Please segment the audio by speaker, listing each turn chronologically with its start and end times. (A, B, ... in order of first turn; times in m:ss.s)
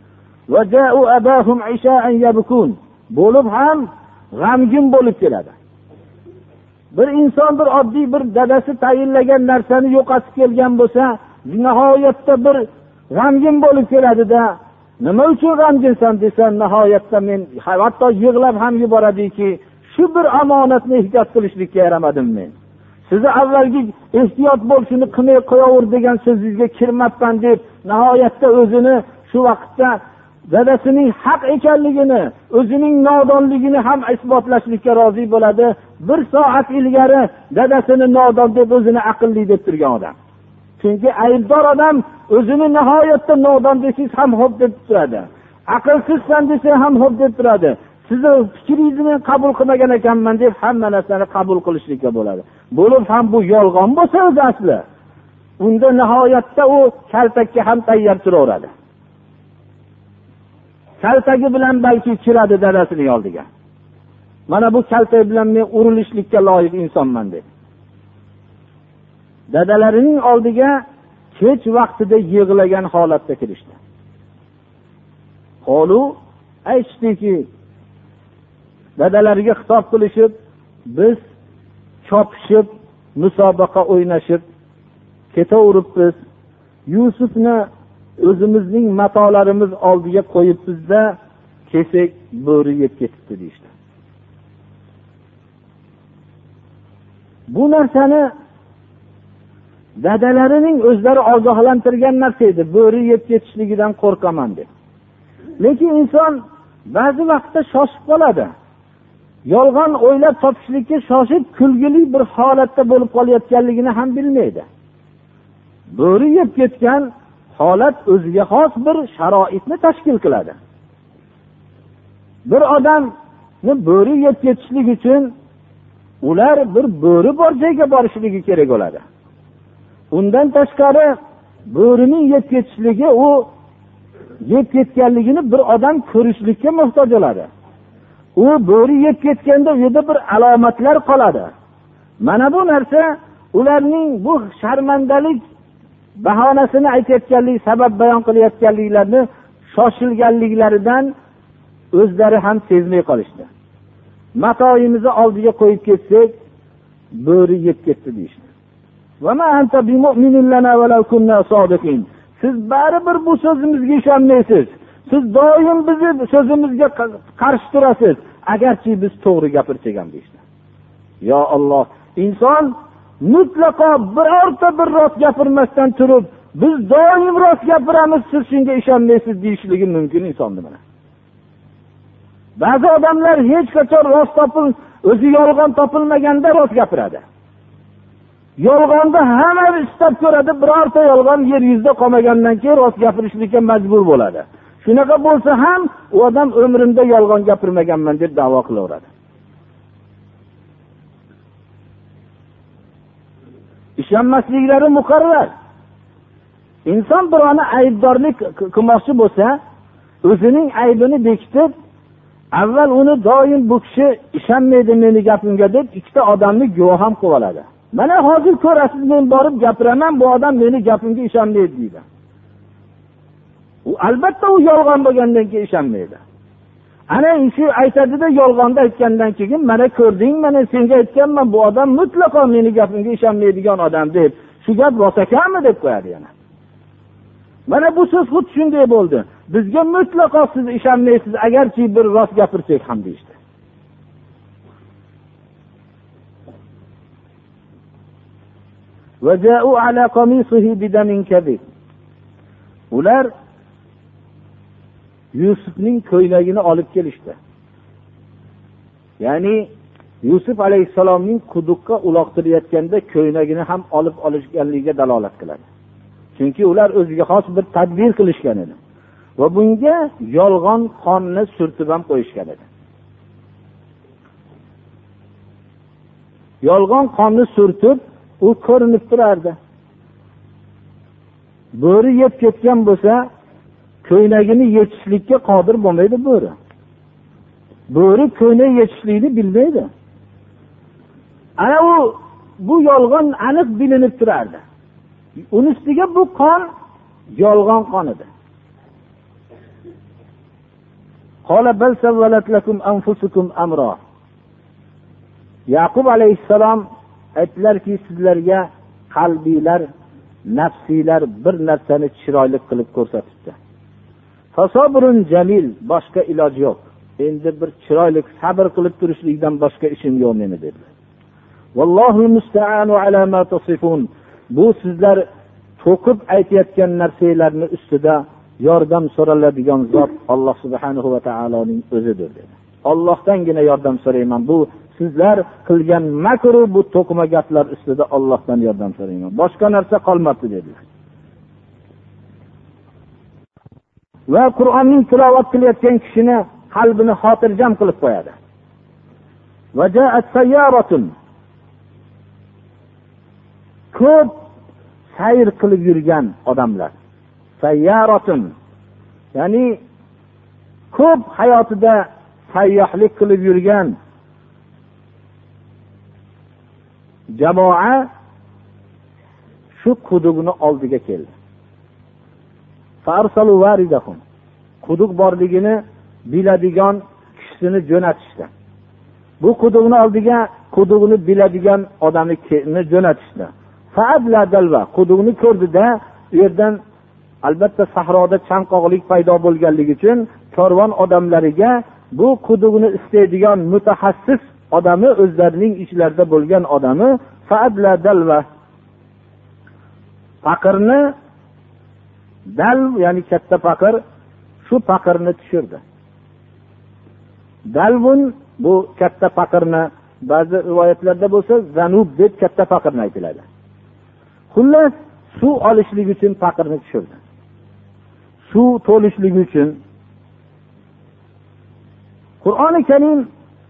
0:00.5-0:05.5 A
0:06.9-0:22.5 A
0:23.1-0:40.2 A
0:40.8-0:54.8 A
0:55.6-0:58.7 A
1:01.0-1:03.5 A
1:04.5-1:07.4 A
1:09.5-1:10.8 A
1:11.4-1:13.8 A
1:15.6-1:16.2 A
1:16.7-1:17.5 A
1:19.0-1:20.3 A
1:20.9-1:21.2 A
1:22.0-1:24.4 A
1:25.3-1:26.2 A
1:26.9-1:27.7 A
1:28.2-1:31.2 A
1:31.7-1:33.7 A
1:37.5-1:38.3 A
1:40.0-1:44.7 A
1:45.6-1:48.5 A
1:49.5-1:54.7 A
1:56.0-2:00.6 A
2:02.5-2:03.1 A
2:03.6-2:05.3 A
2:06.2-2:09.0 A
2:10.1-2:11.1 A
2:11.7-2:13.5 A
2:14.4-2:17.5 A
2:18.4-2:21.5 A
2:22.2-2:25.4 A
2:26.2-2:31.1 A
2:31.9-2:33.5 A
2:34.4-2:36.3 A
2:37.2-2:38.4 A
2:39.2-2:50.4 A
2:51.2-3:00.8 A
3:02.6-3:07.2 A
3:08.6-3:19.1 A
3:24.0-3:25.5 A
3:26.9-3:29.6 A
3:30.2-3:31.7 A
3:32.6-3:42.0 A
3:43.8-3:46.2 A
3:47.1-3:56.3 A
3:57.7-4:03.4 A
4:09.2-4:11.6 A
4:12.9-4:13.3 A
4:15.3-4:17.4 A
4:19.2-4:19.7 A
4:20.2-4:25.6 A
4:26.4-4:28.8 A
4:29.4-4:32.7 A
4:36.6-4:39.6 A
4:41.8-4:43.2 A
4:44.0-4:46.6 A
4:47.9-4:49.9 A
4:51.6-4:54.6 A
4:55.4-4:56.7 A
4:57.4-4:58.3 A
5:01.5-5:04.0 A
5:05.7-5:06.8 A
5:07.4-5:09.9 A
5:10.5-5:13.6 A
5:14.5-5:20.8 A
5:21.8-5:25.2 A
5:25.8-5:40.8 A
5:44.3-5:48.4 A
5:49.8-5:51.1 A
5:53.9-5:54.3 A
5:55.2-5:56.9 A
5:57.6-5:58.5 A
5:59.4-5:59.8 A
6:00.9-6:04.0 A
6:07.4-6:08.1 A
6:09.8-6:11.3 A
6:13.0-6:14.2 A
6:14.8-6:18.5 A
6:19.4-6:26.8 A
6:27.4-6:38.5 A
6:40.4-6:41.1 A
6:42.6-6:44.0 A
6:44.6-6:45.8 A
6:47.7-6:53.4 A
6:54.5-6:57.2 A
6:58.5-6:59.8 A
7:02.4-7:03.3 A